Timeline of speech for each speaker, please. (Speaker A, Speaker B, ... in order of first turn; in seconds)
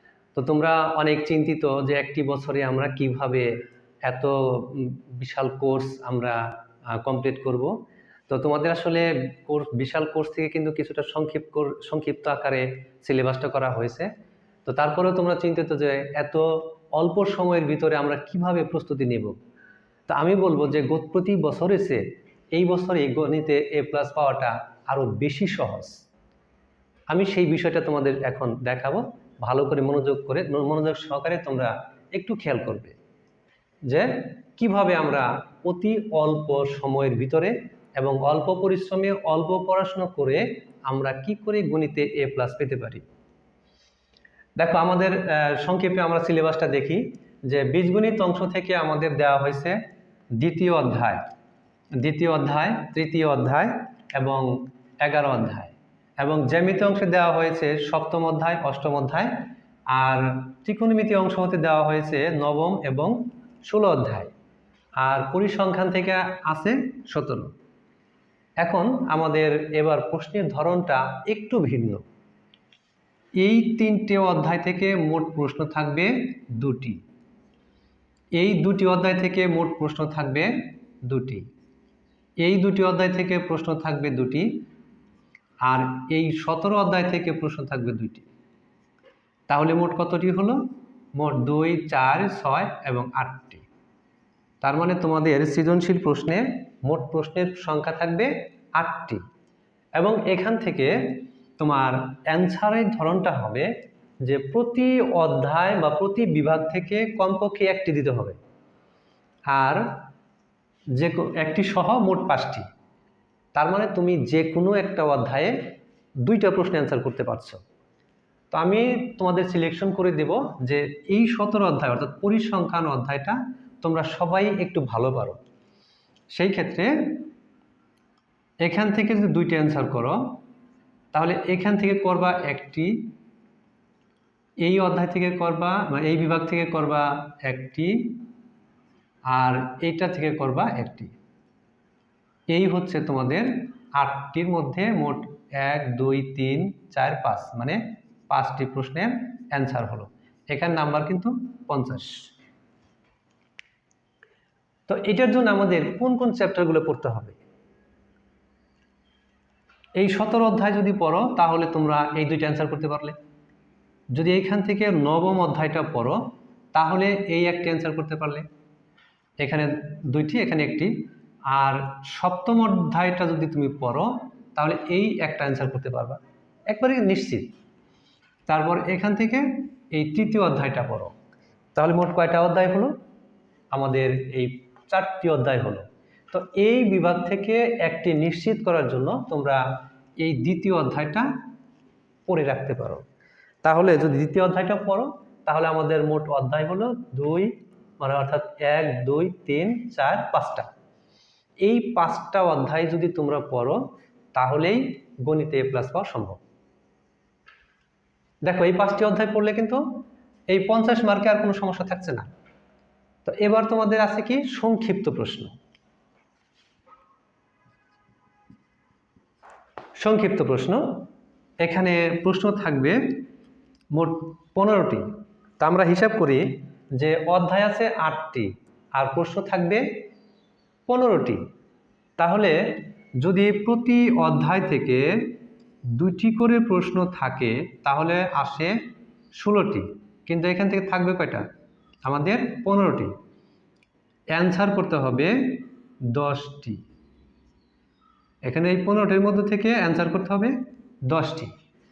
Speaker A: 0.3-3.5, 4.0-6.4, 7.0-7.7, 8.3-14.1, 14.7-19.4, 20.1-22.0, 22.5-25.9, 27.1-32.9, 33.9-43.0, 44.6-49.8, 50.4-51.2, 52.0-64.3, 65.0-67.5, 68.6-72.0, 73.4-77.0, 78.3-81.5, 82.4-84.5, 85.6-88.3, 89.5-90.6, 91.1-93.6, 94.6-99.2, 100.0-103.7, 104.2-108.4, 109.5-109.9, 110.9-112.7, 113.5-115.6, 116.2-117.6, 118.5-125.4, 126.3-127.2, 128.6-130.4, 131.1-133.1, 134.6-138.2, 139.3-141.1, 142.5-152.3, 154.9-157.4, 159.9-163.2, 164.1-166.2, 166.7-168.4, 169.4-171.0, 171.5-177.5, 178.5-181.1, 181.8-182.9, 183.7-189.6, 190.2-191.3, 192.3-193.0, 193.6-200.7, 201.6-206.4, 208.4-209.8, 210.5-212.3, 213.2-215.5, 220.0-221.0, 221.6-223.2, 223.9-225.1, 225.6-229.8, 230.9-231.4, 232.2-235.2, 235.9-238.8, 239.3-241.4, 242.1-243.1, 244.3-246.8, 248.4-251.5